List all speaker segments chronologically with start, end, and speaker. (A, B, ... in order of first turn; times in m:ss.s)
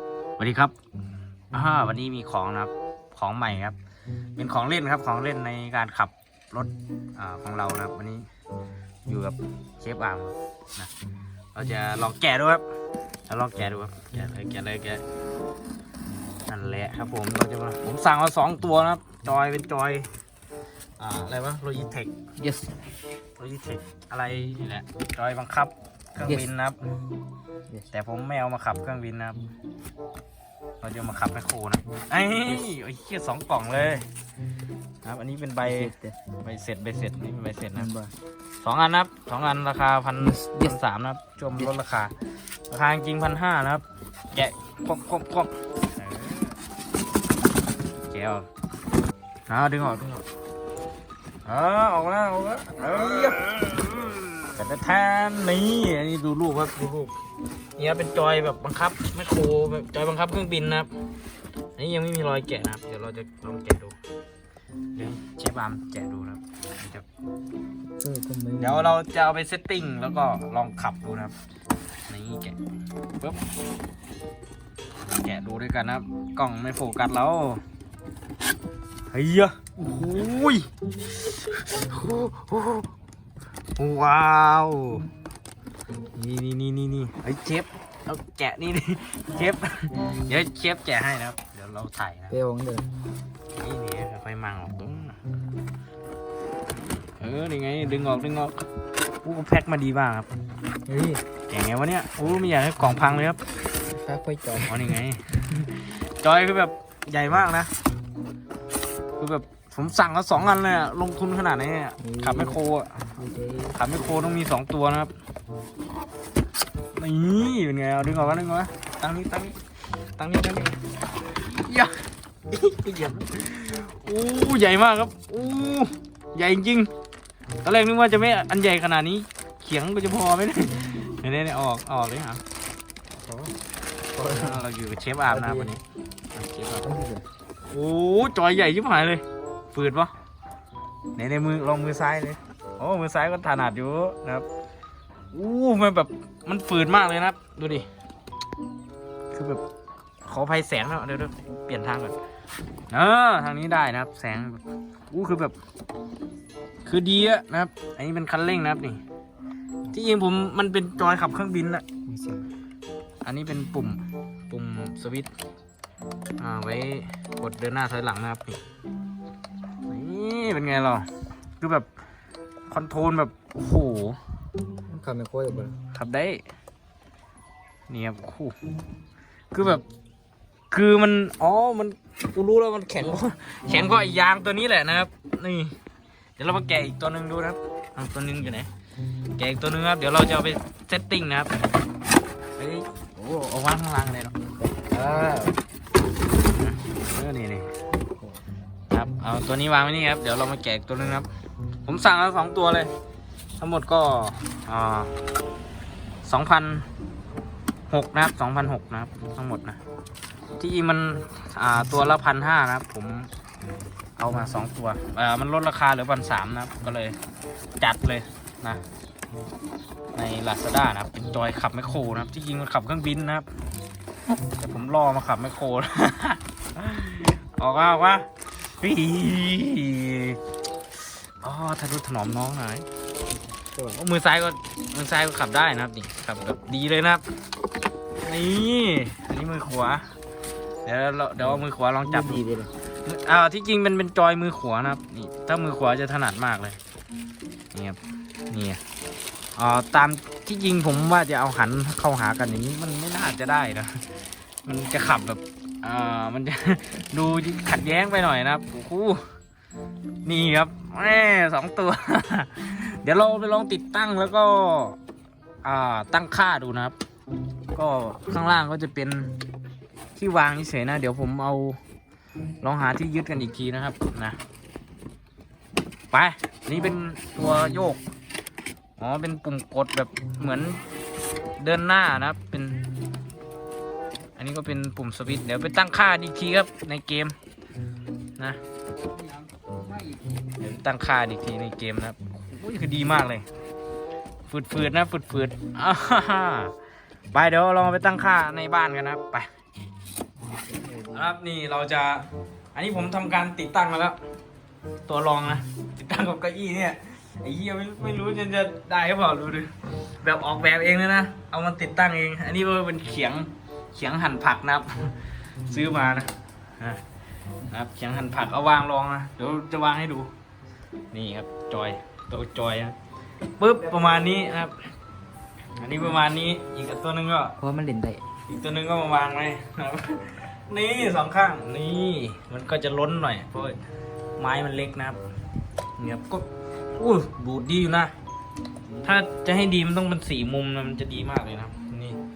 0:00.4-0:00.8 A
0:01.5-0:03.8 A
0:04.4-0:08.2 A
0:09.1-0:10.9 A
0:11.5-0:12.6 A
0:13.3-0:15.0 A
0:16.5-0:20.1 A
0:21.0-0:22.2 A
0:22.4-0:22.7 B
0:23.4-0:26.8 A
0:27.9-0:29.4 A
0:30.8-0:34.0 A
0:35.0-0:37.9 A
0:35.6-0:36.2 B
0:37.8-0:38.1 B
0:38.6-0:42.1 A
0:40.2-0:40.7 B
0:42.7-0:46.6 A
0:48.1-0:48.5 A
0:49.5-0:50.2 A
0:51.4-0:53.9 A
0:54.5-0:57.1 A
0:57.8-1:00.9 A
1:01.8-1:04.0 A
1:04.9-1:07.0 A
1:08.0-1:08.8 B
1:08.6-1:11.4 A
1:12.1-1:12.6 A
1:15.1-1:17.6 A
1:19.1-1:22.9 A
1:23.8-1:25.1 A
1:26.1-1:32.3 A
1:32.3-1:32.9 B
1:33.5-1:35.2 A
1:37.0-1:38.6 A
1:39.2-1:40.3 A
1:40.8-1:41.2 B
1:41.5-1:43.4 A
1:44.0-1:44.9 B
1:44.7-1:47.7 A
1:49.2-1:53.0 A
1:52.0-1:52.5 B
1:53.2-1:53.8 B
1:53.7-1:55.1 A
1:56.9-1:59.6 A
2:00.2-2:00.8 A
2:01.4-2:06.9 A
2:07.6-2:12.4 A
2:13.2-2:13.5 B
2:14.1-2:14.6 B
2:14.2-2:15.8 A
2:15.3-2:15.7 B
2:16.3-2:16.9 A
2:16.8-2:17.2 B
2:17.7-2:20.1 A
2:21.2-2:24.5 A
2:25.3-2:27.9 A
2:29.3-2:29.6 A
2:30.2-2:32.2 A
2:32.9-2:35.6 A
2:36.8-2:39.0 A
2:39.9-2:41.8 A
2:42.1-2:42.4 B
2:43.2-2:45.3 A
2:46.4-2:48.6 A
2:49.9-2:51.1 A
2:51.6-2:51.9 A
2:52.7-2:54.2 A
2:54.9-2:55.7 B
2:55.9-2:56.4 A
2:57.9-2:58.6 A
2:59.5-2:59.8 A
3:00.7-3:05.7 A
3:06.4-3:08.7 A
3:09.3-3:11.5 A
3:12.6-3:14.4 A
3:14.6-3:15.6 B
3:16.4-3:17.7 A
3:18.9-3:21.3 A
3:21.8-3:22.9 A
3:23.6-3:25.1 A
3:26.2-3:26.9 A
3:27.9-3:29.8 A
3:30.6-3:33.3 A
3:34.2-3:37.2 A
3:37.8-3:38.8 A
3:40.1-3:43.5 A
3:44.6-3:50.4 A
3:51.4-3:52.8 A
3:53.6-3:54.0 B
3:53.9-3:57.2 A
3:58.2-4:00.1 A
4:00.8-4:02.4 A
4:01.4-4:02.7 B
4:03.0-4:06.8 A
4:07.7-4:08.8 A
4:09.6-4:14.0 A
4:14.6-4:19.2 A
4:20.2-4:25.0 A
4:25.6-4:27.0 A
4:27.7-4:29.4 A
4:30.1-4:31.8 A
4:32.6-4:34.4 A
4:36.1-4:38.0 A
4:39.0-4:40.8 A
4:41.6-4:42.9 A
4:44.4-4:47.4 A
4:50.6-4:53.5 A
4:54.5-4:56.7 A
4:57.3-4:59.5 A
5:00.4-5:01.2 B
5:01.1-5:04.2 A
5:05.1-5:17.0 A
5:17.7-5:20.3 A
5:21.1-5:22.9 A
5:23.6-5:24.7 A
5:25.8-5:27.6 A
5:27.6-5:28.2 B
5:28.5-5:33.8 A
5:34.4-5:35.2 A
5:36.0-5:38.1 A
5:39.0-5:42.2 A